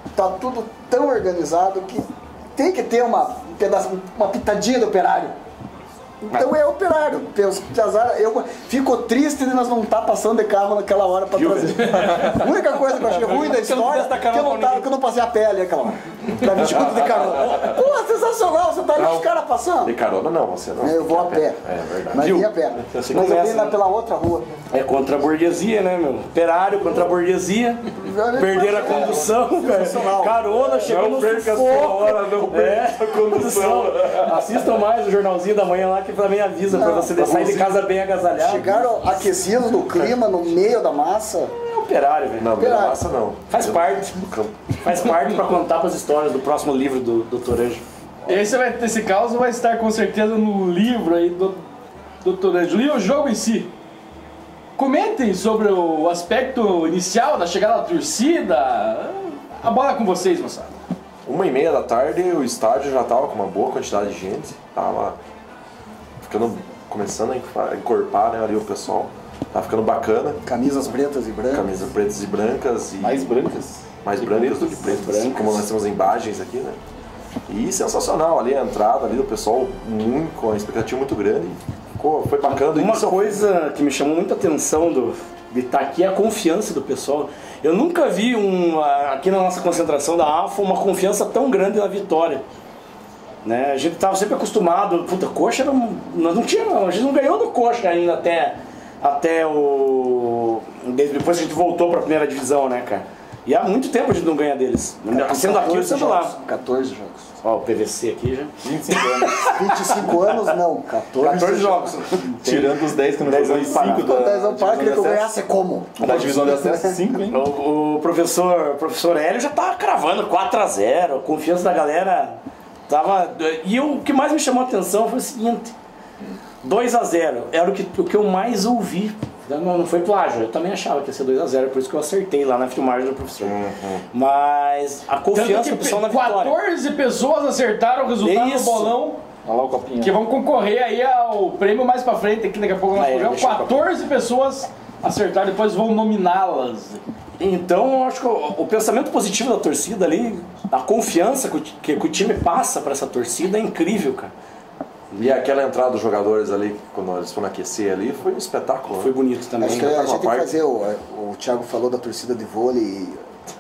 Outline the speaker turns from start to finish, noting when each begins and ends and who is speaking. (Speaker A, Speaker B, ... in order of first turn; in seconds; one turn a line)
Speaker A: 0.1-5.3
Speaker A: 6.2-19.9
Speaker B: 11.3-14.9
Speaker C: 11.9-12.2
Speaker D: 16.4-17.6
Speaker D: 18.9-19.3
Speaker D: 19.8-22.2
Speaker A: 20.8-24.5
Speaker B: 22.2-23.8
Speaker B: 24.7-39.3
Speaker A: 27.9-30.7
Speaker D: 30.8-34.5
Speaker A: 36.7-37.2
Speaker D: 37.1-37.8
Speaker A: 38.3-41.5
Speaker B: 41.6-42.5
Speaker D: 42.4-44.7
Speaker A: 42.5-43.0
Speaker B: 43.5-44.2
Speaker B: 44.8-47.8
Speaker C: 48.3-51.6
Speaker C: 52.2-53.7
Speaker C: 54.8-60.8
Speaker D: 61.2-65.2
Speaker D: 66.2-70.4
Speaker A: 70.4-71.7
Speaker D: 71.5-73.3
Speaker E: 73.0-74.8
Speaker D: 74.0-76.8
Speaker B: 74.7-75.7
Speaker D: 77.5-83.4
Speaker B: 82.5-92.4
Speaker B: 93.4-106.3
Speaker A: 105.1-107.3
Speaker B: 107.4-110.5
Speaker E: 108.6-109.4
Speaker A: 109.4-112.3
Speaker B: 111.1-112.7
Speaker E: 112.4-115.4
Speaker D: 113.2-114.0
Speaker B: 113.6-114.0
Speaker A: 113.7-117.2
Speaker E: 116.0-117.4
Speaker B: 117.3-125.7
Speaker B: 126.6-133.6
Speaker D: 133.4-134.0
Speaker B: 134.1-136.6
Speaker C: 135.3-139.2
Speaker B: 138.2-138.9
Speaker E: 139.4-140.2
Speaker C: 140.0-147.0
Speaker B: 142.9-143.9
Speaker B: 147.4-154.3
Speaker D: 155.2-160.5
Speaker B: 159.0-159.9
Speaker A: 159.6-163.2